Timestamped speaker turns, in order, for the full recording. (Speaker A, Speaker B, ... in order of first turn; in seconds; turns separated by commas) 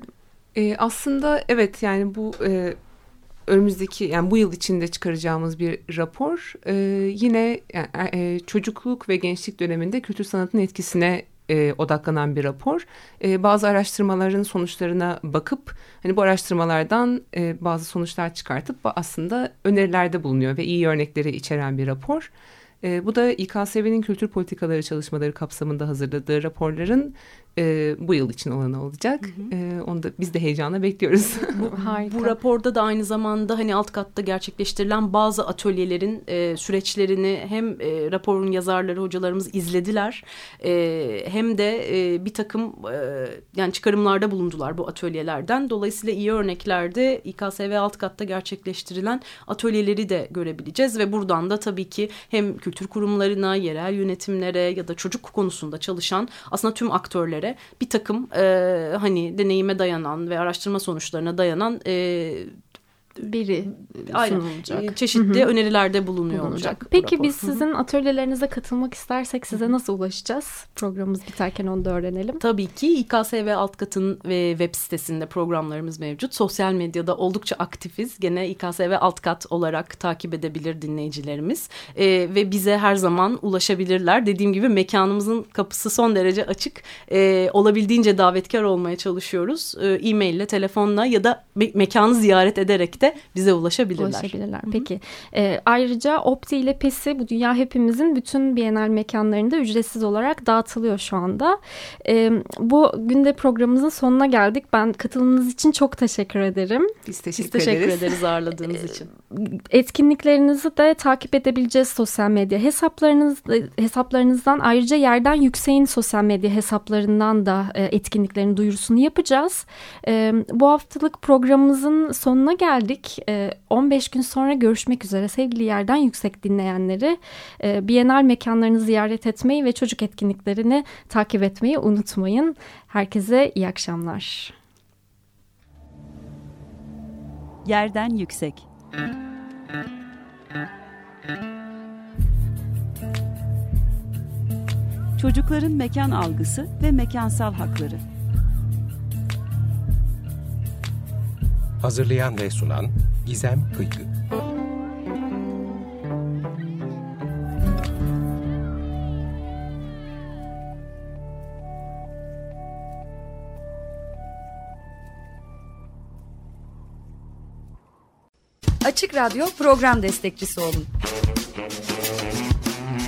Speaker A: 0.6-2.8, Speaker A: 3.5-22.3, Speaker A: 22.8-31.6, Speaker B: 29.2-29.5, Speaker B: 31.5-62.5, Speaker C: 31.7-32.4, Speaker C: 63.2-65.5, Speaker B: 64.1-67.6, Speaker C: 66.3-72.4, Speaker B: 72.4-94.9, Speaker C: 94.0-106.9, Speaker A: 107.0-108.1, Speaker B: 107.3-109.1, Speaker C: 109.3-134.5, Speaker D: 137.6-138.7, Speaker D: 145.2-148.0, Speaker E: 151.8-154.1, Speaker F: 168.8-170.9